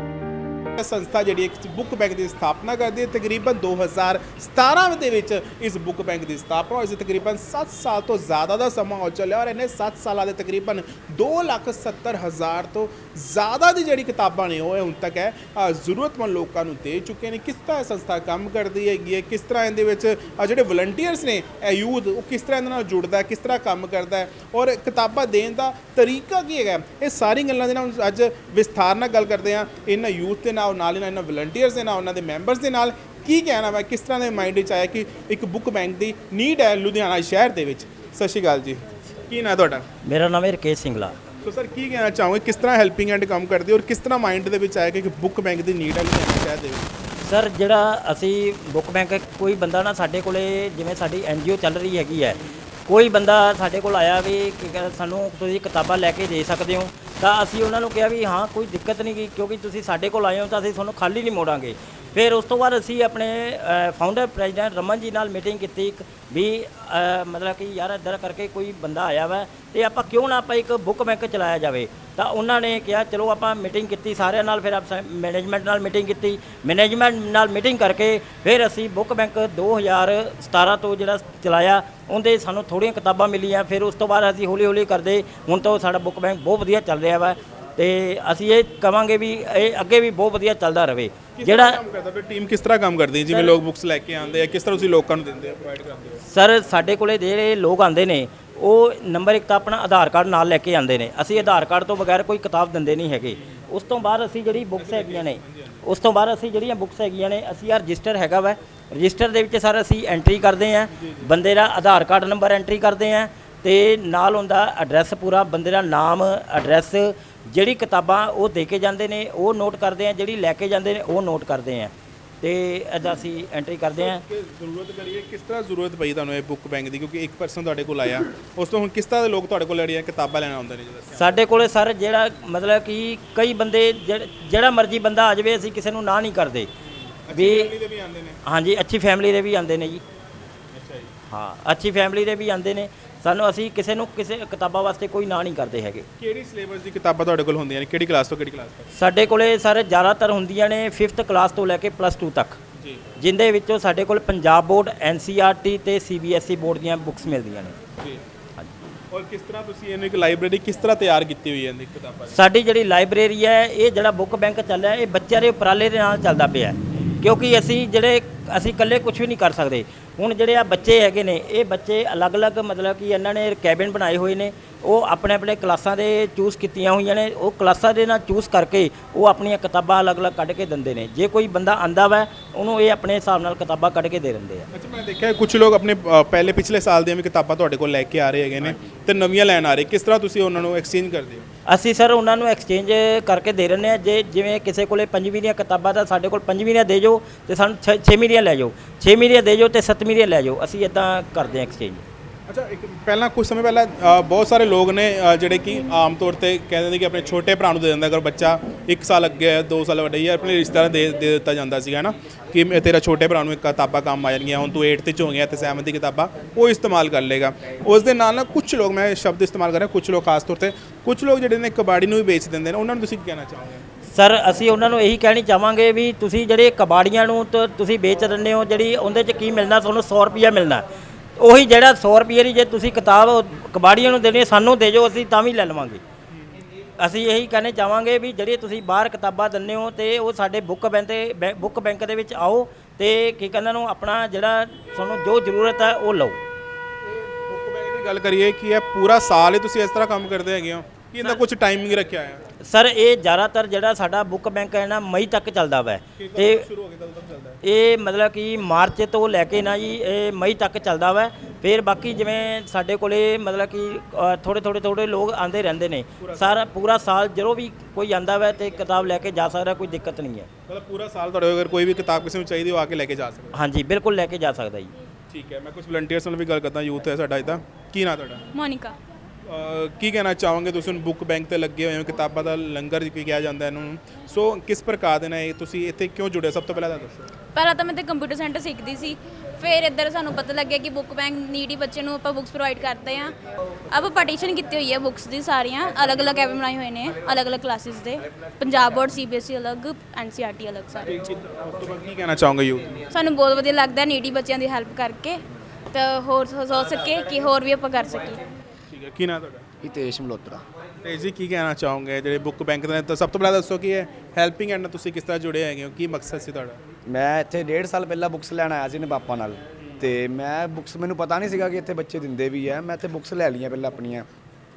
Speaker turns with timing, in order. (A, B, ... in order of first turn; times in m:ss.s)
0:00.8-0:39.8 A
0:40.0-0:41.2 B
0:41.4-0:46.9 A
0:47.2-1:31.8 B
1:31.4-1:36.2 A
1:33.3-1:33.6 B
1:36.2-2:04.2 B
1:44.7-1:45.8 A
1:50.9-1:51.3 A
2:04.0-2:11.4 A
2:11.1-2:16.7 B
2:16.8-2:18.4 A
2:17.3-2:17.7 B
2:18.4-2:20.0 B
2:20.7-2:21.1 A
2:21.3-2:26.1 B
2:26.2-2:28.9 A
2:28.9-2:32.6 B
2:32.8-2:33.0 A
2:33.2-2:37.8 B
2:39.1-2:42.4 A
2:42.3-3:04.7 B
3:04.7-3:11.4 A
3:11.7-3:22.0 B
3:22.5-3:43.8 A
3:44.1-3:50.8 B
3:51.4-3:56.0 B
3:57.0-4:06.4 B
4:07.0-4:12.4 A
4:12.6-4:16.6 B
4:16.2-4:17.6 A
4:17.6-4:30.5 B
4:26.2-4:26.6 A
4:30.7-4:33.5 A
4:33.5-4:34.9 B
4:35.3-4:38.4 A
4:38.5-4:39.0 C
4:39.4-4:47.3 A
4:47.5-4:53.4 C
4:53.9-5:01.2 C
5:01.0-5:03.0 A
5:03.1-5:05.4 C
5:05.9-5:08.4 C
5:08.9-5:09.6 A
5:09.8-5:10.6 D
5:11.0-5:16.8 A
5:17.0-5:24.2 D